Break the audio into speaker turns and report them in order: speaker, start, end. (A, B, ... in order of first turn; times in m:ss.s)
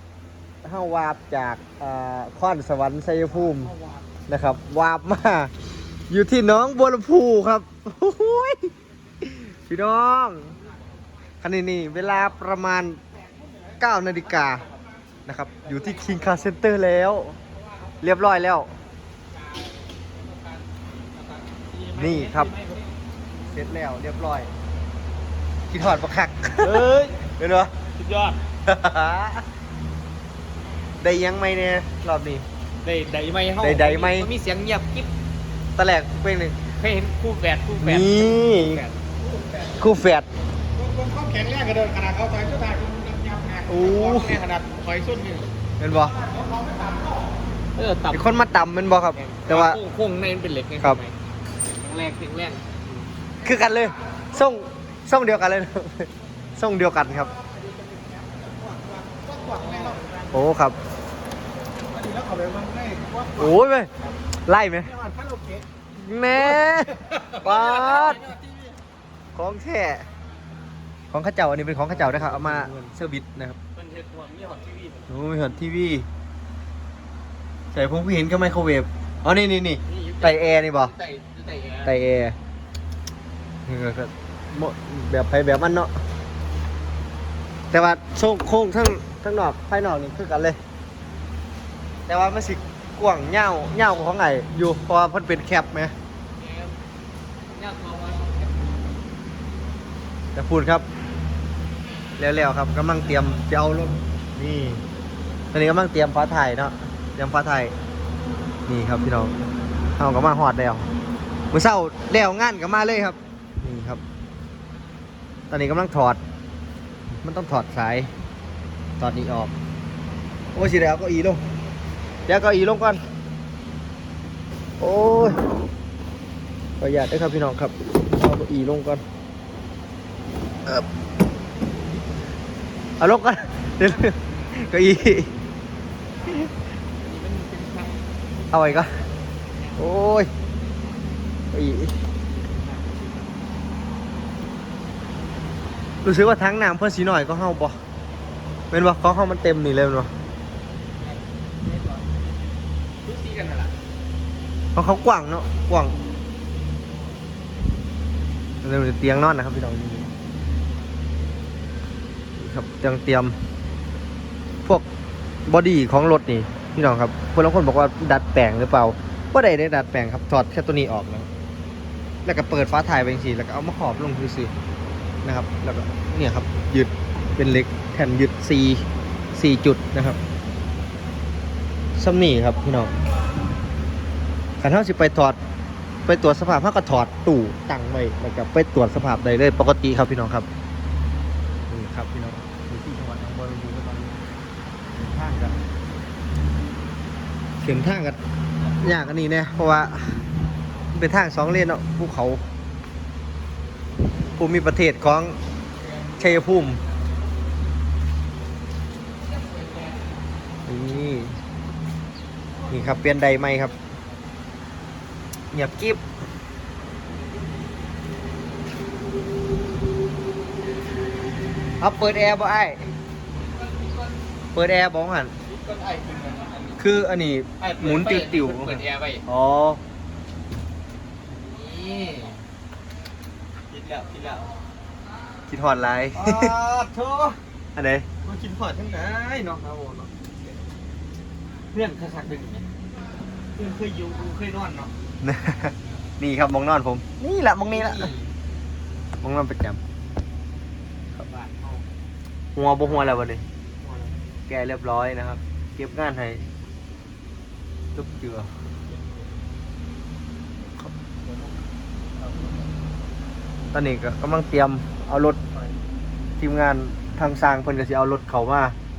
0:00.6-0:03.7 A
0:03.3-0:04.2 B
0:04.3-0:05.5 A
0:06.1-0:10.5 A
0:11.4-0:13.0 A
0:13.2-0:14.8 B
0:13.8-0:14.6 A
0:15.2-0:17.4 A
0:15.5-0:16.4 B
0:17.6-0:17.9 B
0:18.0-0:18.7 A
0:19.3-0:22.9 B
0:21.9-0:22.5 A
0:23.5-0:24.5 A
0:25.7-0:26.8 A
0:26.6-0:27.2 C
0:27.4-0:27.7 A
0:28.0-0:28.4 C
0:28.6-0:29.4 A
0:31.0-0:32.4 A
0:32.8-0:35.1 C
0:33.6-0:34.3 A
0:35.8-0:36.6 A
0:36.8-0:39.0 C
0:37.8-0:38.8 A
0:39.2-0:39.8 B
0:39.8-0:40.3 A
0:40.8-0:44.2 B
0:43.7-0:44.4 A
0:43.8-0:45.5 C
0:45.8-0:46.2 A
0:45.9-0:47.3 B
0:47.7-0:51.1 C
0:48.1-0:49.8 A
0:51.7-0:52.7 C
0:53.4-0:57.3 A
0:57.1-1:00.4 B
0:59.6-1:00.0 C
1:00.3-1:00.8 A
1:01.9-1:03.6 B
1:03.4-1:03.9 A
1:04.4-1:04.9 A
1:04.8-1:05.7 B
1:06.0-1:08.3 A
1:06.3-1:08.8 B
1:09.3-1:10.1 A
1:11.1-1:13.6 A
1:11.9-1:12.9 C
1:13.7-1:15.1 C
1:15.1-1:16.1 A
1:17.7-1:20.9 A
1:19.8-1:21.9 C
1:21.8-1:22.4 A
1:23.6-1:25.9 A
1:27.7-1:30.6 A
1:32.1-1:35.9 A
1:36.4-1:36.8 C
1:37.5-1:38.8 C
1:40.3-1:40.9 A
1:42.2-1:44.8 A
1:45.5-1:47.7 A
1:48.7-1:49.3 A
1:50.0-1:50.8 A
1:51.5-1:54.0 A
1:55.5-1:56.2 A
1:57.2-1:58.1 A
1:59.0-1:59.5 A
2:00.5-2:01.4 A
2:02.3-2:03.0 A
2:04.8-2:05.4 A
2:06.8-2:09.0 A
2:13.0-2:15.3 A
2:17.0-2:19.8 C
2:18.5-2:18.9 A
2:19.8-2:20.3 A
2:21.5-2:22.0 A
2:22.4-2:23.3 C
2:26.0-2:27.8 A
2:28.7-2:30.1 A
2:31.0-2:32.1 C
2:33.0-2:33.8 C
2:34.7-2:36.0 A
2:38.6-2:40.1 A
2:42.4-2:43.4 A
2:45.4-2:51.3 A
2:52.2-2:54.5 A
2:55.2-3:00.2 A
3:02.0-3:02.9 A
3:04.6-3:05.4 A
3:06.0-3:10.4 A
3:11.7-3:14.2 A
3:15.0-3:15.6 A
3:17.6-3:18.2 A
3:18.7-3:20.2 A
3:20.9-3:22.4 A
3:24.4-3:25.4 A
3:25.9-3:26.9 C
3:26.2-3:26.8 A
3:29.3-3:30.0 C
3:30.7-3:31.4 A
3:32.7-3:33.7 A
3:35.5-3:36.0 A
3:41.8-3:42.9 A
3:43.4-3:44.2 C
3:44.5-3:45.3 A
3:45.4-3:46.8 C
3:46.8-3:49.8 A
3:47.6-3:49.2 C
3:51.3-3:52.4 C
3:53.7-3:54.5 C
3:55.5-3:56.5 A
3:56.1-3:57.4 C
3:57.8-3:58.1 A
3:58.2-4:00.2 C
4:01.7-4:02.6 C
4:03.5-4:04.9 C
4:05.2-4:08.1 A
4:07.6-4:08.3 C
4:09.2-4:09.8 A
4:11.1-4:11.9 C
4:12.5-4:13.4 A
4:12.8-4:13.2 C
4:13.8-4:14.2 C
4:14.5-4:16.4 A
4:17.9-4:18.5 A
4:18.9-4:19.3 C
4:21.2-4:21.6 C
4:22.2-4:22.7 C
4:23.7-4:25.4 A
4:26.4-4:28.7 A